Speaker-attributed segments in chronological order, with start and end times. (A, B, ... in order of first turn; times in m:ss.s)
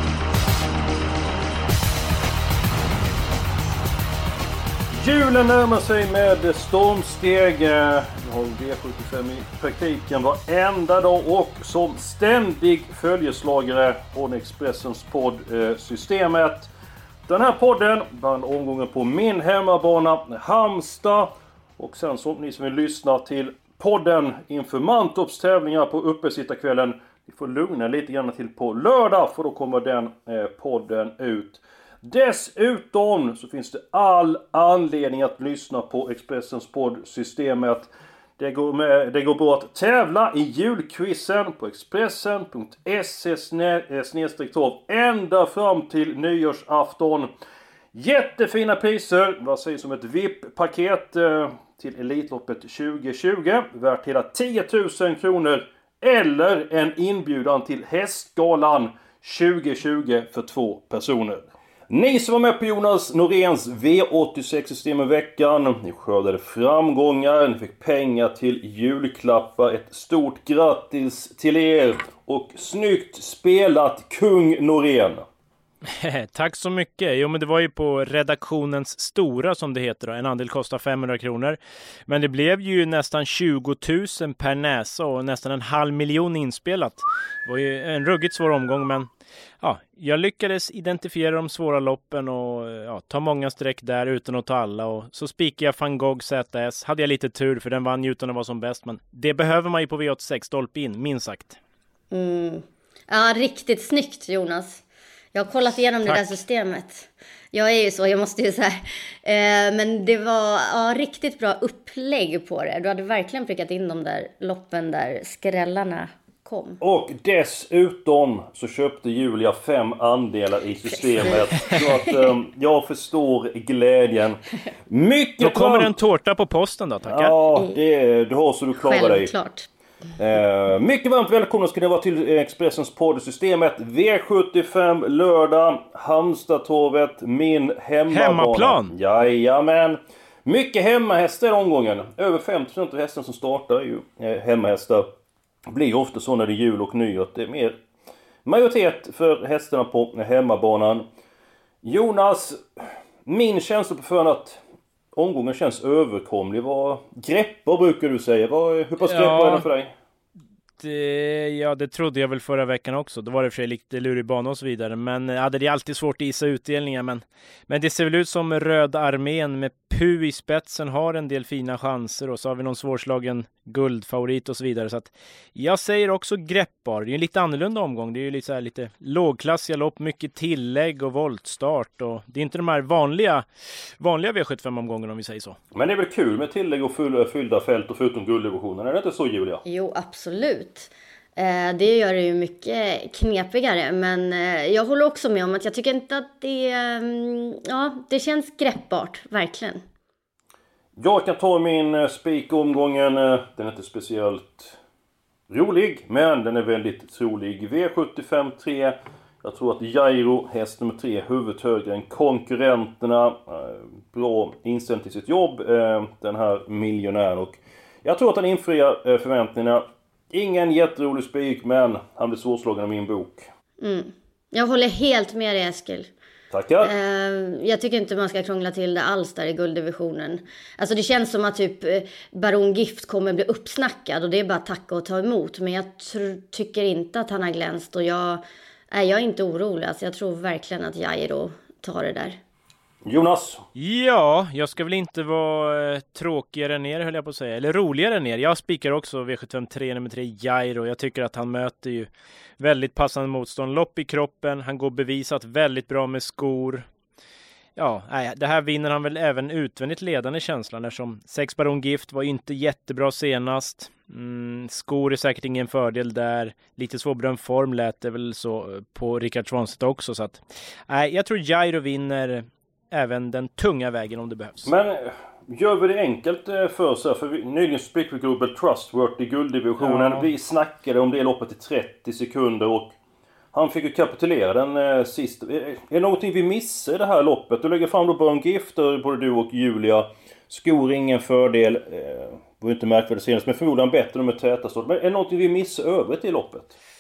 0:04.9-0:16.7 A
0:17.3-0:47.3 A
0:47.9-1:15.3 A
1:15.9-1:29.1 B
1:29.6-1:41.6 B
1:42.1-1:44.8 C
1:45.3-1:56.8 C
1:46.0-1:46.4 B
1:56.8-2:05.9 A
2:00.9-2:02.1 C
2:05.4-2:07.3 B
2:07.0-2:09.3 A
2:07.5-2:07.8 C
2:08.8-2:09.7 C
2:10.2-2:25.1 A
2:18.1-2:18.9 B
2:25.7-2:27.8 A
2:28.4-2:31.0 A
2:31.8-2:34.6 A
2:35.2-2:39.9 A
2:39.0-2:39.7 B
2:40.8-3:03.4 B
3:04.0-3:05.6 B
3:05.7-3:09.6 A
3:09.6-3:19.8 C
3:21.0-3:24.8 A
3:25.5-3:43.5 A
3:43.8-3:46.1 C
3:46.5-3:46.9 A
3:46.8-4:02.4 C
4:03.0-4:03.6 A
4:03.8-4:16.9 B
4:17.8-4:34.7 B
4:34.6-4:42.9 A
4:39.8-4:40.3 B
4:43.5-4:56.8 A